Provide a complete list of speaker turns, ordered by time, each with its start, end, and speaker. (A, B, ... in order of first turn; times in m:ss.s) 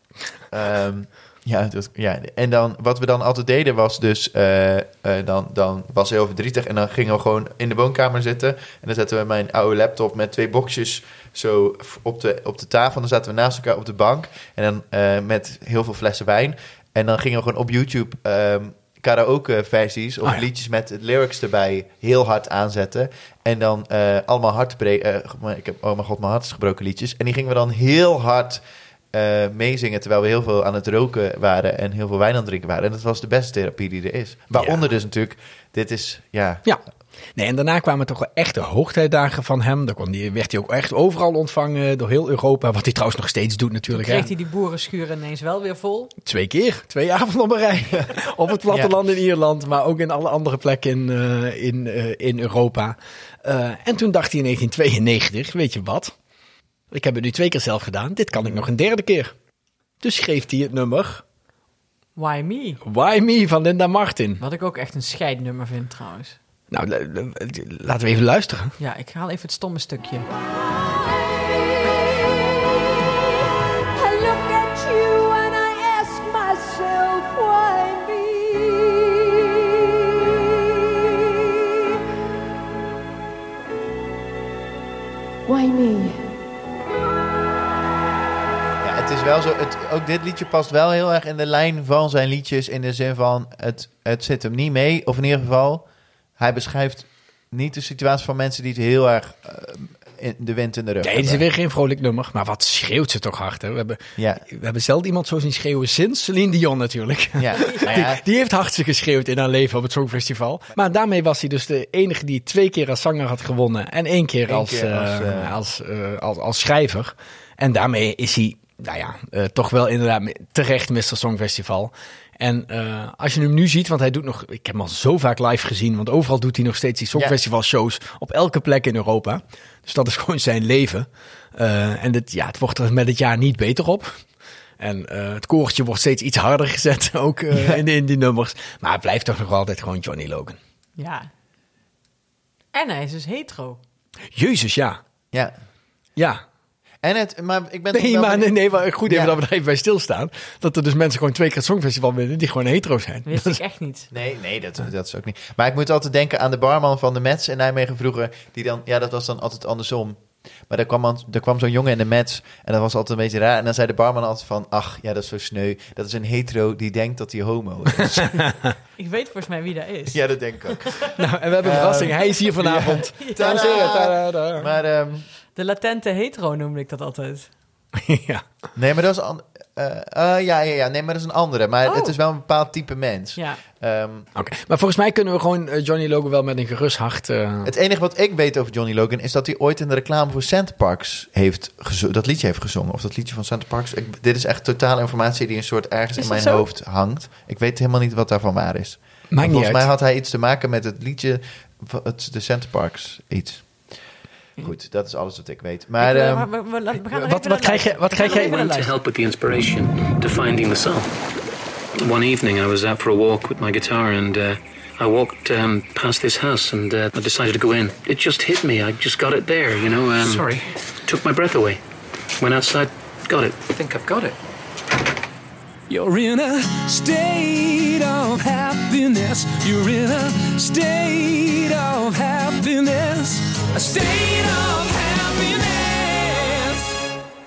0:00.5-0:36.6 A
0:37.4-0:44.3 B
0:43.9-0:46.1 C
0:46.2-0:56.1 B
0:48.7-0:48.9 A
0:56.9-0:59.3 B
1:00.0-1:01.2 B
1:02.2-1:02.8 C
1:02.8-1:04.4 B
1:04.4-1:06.4 C
1:06.7-1:08.8 B
1:08.8-1:10.3 C
1:14.2-1:19.4 D
1:20.9-1:21.5 D
1:28.8-1:35.8 A
1:36.4-1:41.4 A
1:41.0-2:14.2 B
1:44.2-1:44.4 A
1:47.4-1:48.2 A
1:47.6-1:48.0 C
1:54.5-1:55.6 A
2:14.8-2:20.6 B
2:17.5-2:17.8 A
2:21.0-2:21.3 C
2:22.7-2:23.8 C
2:24.3-2:25.0 B
2:26.2-2:26.4 B
2:27.0-2:28.5 A
2:27.9-2:33.6 B
2:29.0-2:29.4 A
2:33.3-2:34.1 C
2:34.1-2:48.5 A
2:48.1-2:48.7 B
2:49.0-2:51.1 C
2:50.1-2:55.3 A
2:51.2-2:54.7 B
2:53.2-2:54.1 C
2:55.6-2:57.5 C
2:58.0-2:58.4 B
2:58.8-3:04.3 A
3:01.9-3:02.2 C
3:04.4-3:07.7 B
3:07.6-3:23.6 A
3:16.2-3:16.6 C
3:19.3-3:19.9 B
3:24.6-3:26.5 A
3:26.0-3:29.0 C
3:27.0-3:28.7 B
3:28.3-3:31.1 E
3:32.0-3:41.8 E
3:42.4-3:43.8 E
3:45.9-3:57.0 F